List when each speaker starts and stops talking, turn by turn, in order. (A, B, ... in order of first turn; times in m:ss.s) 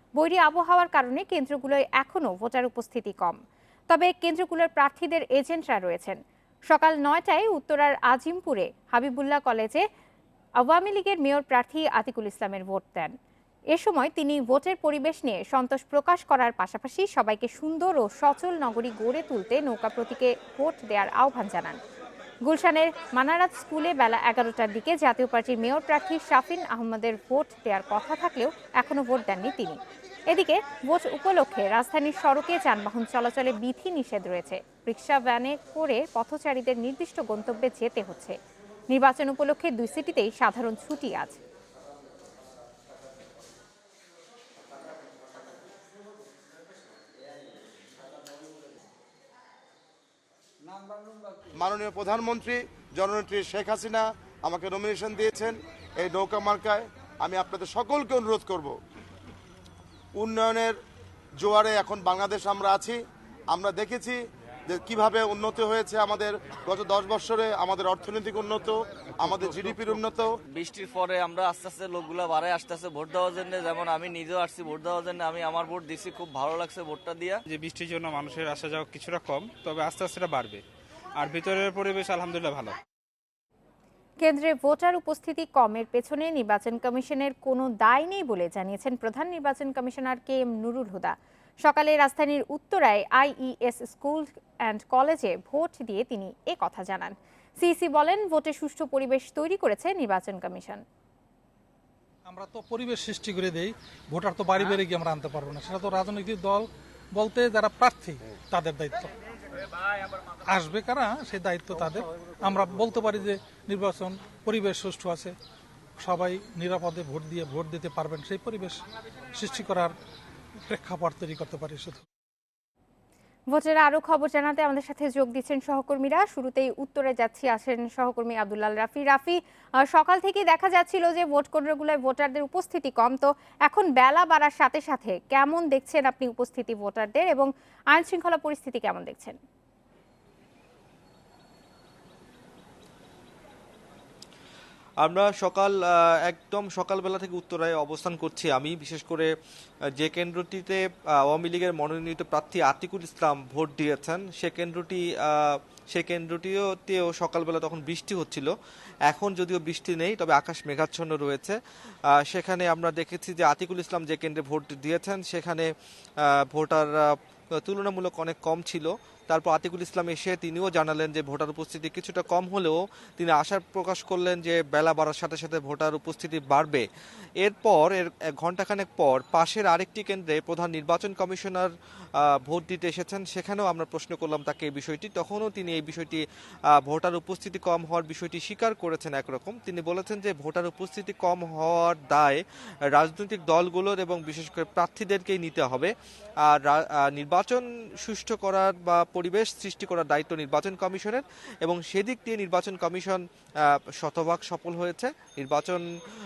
0:00.2-0:03.4 A
0:03.9-0:06.2 A
0:06.7-0:09.8 A
0:10.6-0:13.1 A
0:13.7-0:21.8 A
0:22.5-0:29.8 A
0:30.3-0:38.4 A
0:38.9-0:41.4 A
0:51.6-0:58.8 B
1:00.2-1:00.8 B
1:01.4-1:03.0 B
1:03.5-1:10.3 B
1:10.5-1:17.4 C
1:17.5-1:20.6 D
1:21.2-1:22.8 D
1:24.2-1:40.8 A
1:42.2-1:49.1 E
1:50.5-1:55.4 E
1:56.0-2:00.0 E
2:00.6-2:02.0 E
2:03.5-2:19.4 A
2:25.0-2:29.3 F
2:30.0-2:38.5 F
2:39.1-2:41.6 F
2:42.1-2:45.7 F
2:46.2-2:56.8 F
2:57.4-3:12.4 F
3:12.9-3:15.9 F
3:16.5-3:25.8 F